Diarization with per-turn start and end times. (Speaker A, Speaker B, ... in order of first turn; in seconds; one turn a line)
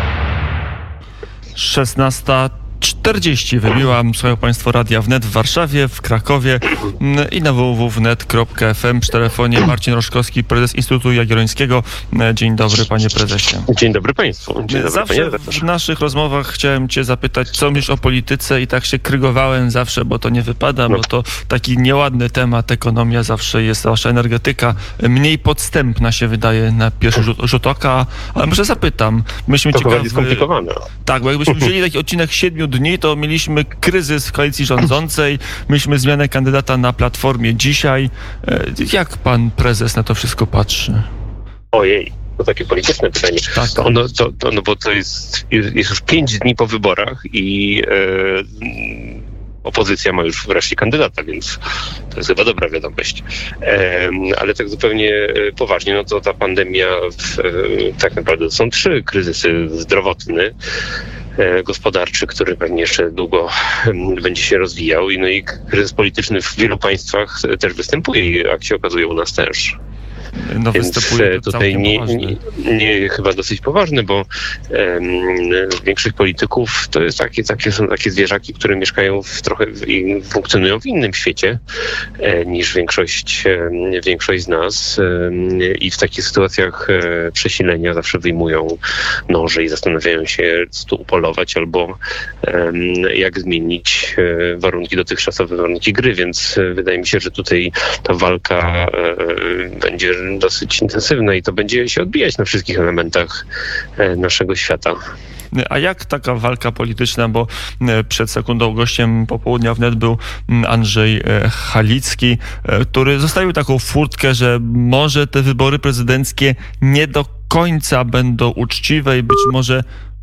Speaker A: 1.6-13.7
Speaker B: 13.7-15.6
Speaker A: 14.7-30.5
Speaker B: 29.7-30.9
Speaker A: 31.0-41.1
Speaker B: 31.5-31.7
Speaker B: 41.7-51.6
Speaker A: 43.5-43.9
Speaker B: 52.1-60.5
Speaker B: 61.4-69.8
Speaker A: 70.4-72.4
Speaker B: 70.7-81.6
Speaker B: 82.2-103.4
Speaker B: 104.0-105.0
Speaker A: 105.5-119.8